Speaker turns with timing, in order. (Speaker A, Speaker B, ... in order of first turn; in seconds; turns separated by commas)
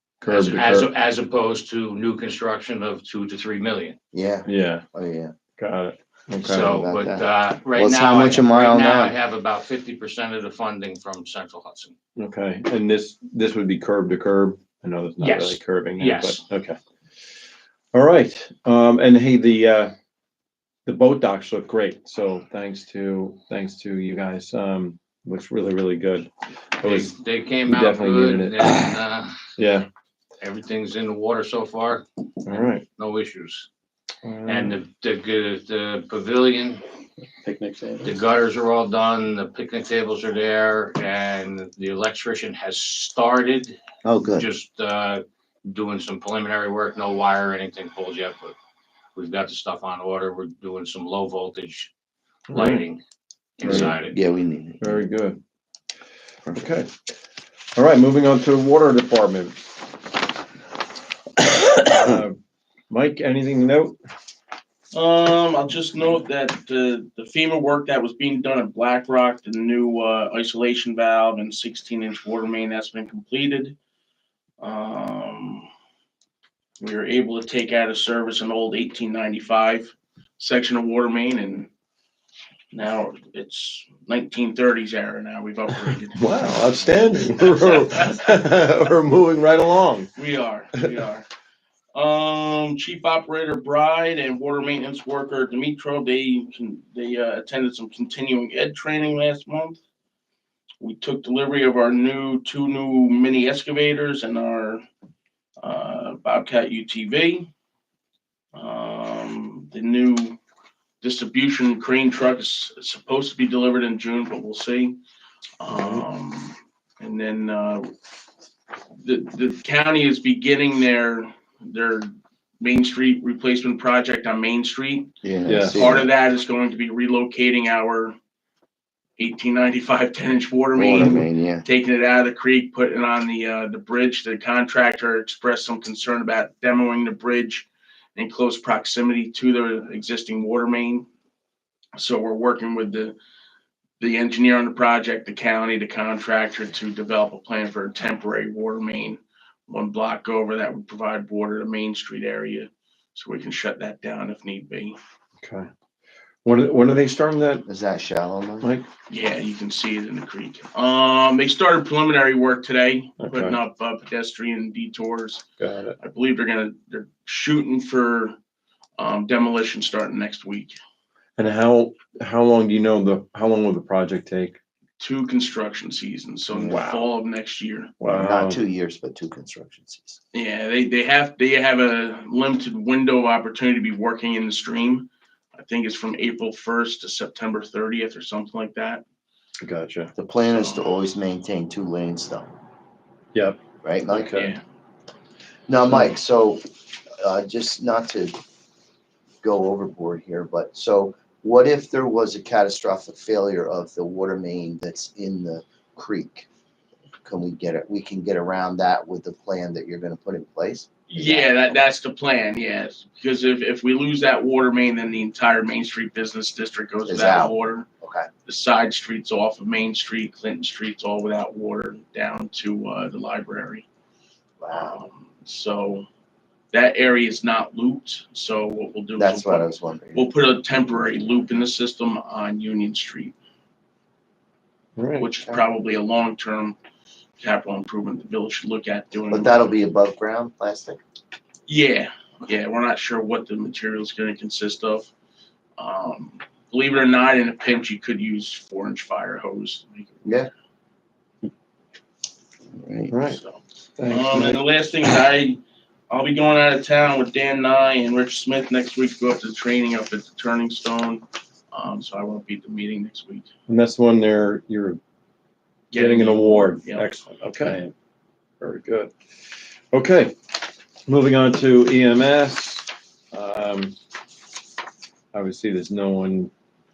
Speaker A: 0.2-0.9, Speaker B: 0.2-4.0, Speaker C: 4.1-5.3, Speaker A: 4.5-4.8, Speaker A: 5.6-6.7, Speaker B: 6.4-11.9, Speaker C: 6.7-9.2, Speaker A: 12.2-16.8, Speaker B: 15.2-16.4, Speaker A: 17.9-19.9, Speaker A: 20.9-27.1, Speaker B: 26.8-29.5, Speaker A: 27.6-28.9, Speaker A: 29.6-29.9, Speaker B: 30.4-33.7, Speaker A: 32.4-32.8, Speaker A: 34.2-34.8, Speaker B: 34.5-36.8, Speaker B: 38.0-43.8, Speaker C: 44.0-44.5, Speaker B: 44.3-48.5, Speaker B: 49.1-51.9, Speaker A: 52.5-52.8, Speaker B: 52.5-53.0, Speaker B: 53.6-54.2, Speaker C: 53.6-55.0, Speaker A: 54.8-55.4, Speaker C: 56.4-56.7, Speaker A: 56.5-56.9, Speaker A: 57.7-59.6, Speaker A: 61.8-62.4, Speaker A: 62.9-64.0, Speaker D: 64.9-73.8, Speaker D: 74.6-75.7, Speaker D: 76.8-81.7, Speaker D: 82.7-87.9, Speaker A: 86.2-90.1, Speaker D: 90.2-91.3, Speaker D: 91.9-99.8, Speaker D: 100.8-104.8, Speaker D: 105.6-107.5, Speaker D: 108.5-110.4, Speaker D: 111.0-115.0, Speaker D: 115.6-117.9, Speaker A: 115.7-116.0, Speaker D: 119.0-125.1, Speaker C: 125.2-126.1, Speaker A: 125.5-125.9, Speaker D: 125.7-128.2, Speaker D: 129.2-141.1, Speaker C: 130.7-131.6, Speaker A: 130.9-131.2, Speaker D: 141.9-143.2, Speaker D: 144.0-155.0, Speaker A: 155.4-155.7, Speaker A: 156.4-157.6, Speaker C: 157.7-158.7, Speaker D: 159.1-165.4, Speaker A: 163.2-163.6, Speaker A: 165.6-166.0, Speaker D: 166.0-168.3, Speaker D: 169.0-170.8, Speaker A: 171.4-174.6, Speaker D: 175.0-177.9, Speaker C: 176.5-176.9, Speaker A: 176.8-177.0, Speaker A: 178.0-178.6, Speaker C: 178.1-180.2, Speaker D: 180.3-189.0, Speaker A: 189.6-190.1, Speaker C: 190.2-192.5, Speaker D: 190.5-191.1, Speaker A: 193.3-193.6, Speaker C: 193.8-194.4, Speaker A: 194.1-194.5, Speaker D: 194.3-194.6, Speaker C: 195.7-196.6, Speaker C: 197.2-198.4, Speaker C: 199.4-206.5, Speaker C: 207.2-211.7, Speaker D: 211.1-217.8, Speaker C: 217.0-218.3, Speaker D: 218.4-223.8, Speaker C: 224.6-225.0, Speaker D: 224.7-226.1, Speaker D: 226.7-233.3, Speaker C: 229.2-230.3, Speaker A: 235.0-235.3, Speaker D: 235.2-236.8, Speaker D: 237.4-239.6, Speaker C: 239.3-241.0, Speaker D: 241.7-245.1, Speaker D: 245.8-250.4, Speaker C: 250.2-250.5, Speaker C: 252.7-253.1, Speaker A: 253.1-253.4, Speaker D: 253.2-263.5, Speaker A: 254.0-254.6, Speaker A: 263.7-265.0, Speaker D: 265.9-267.1, Speaker A: 265.9-267.9, Speaker A: 268.6-269.1, Speaker A: 269.9-270.4, Speaker A: 271.1-273.9, Speaker A: 275.3-276.5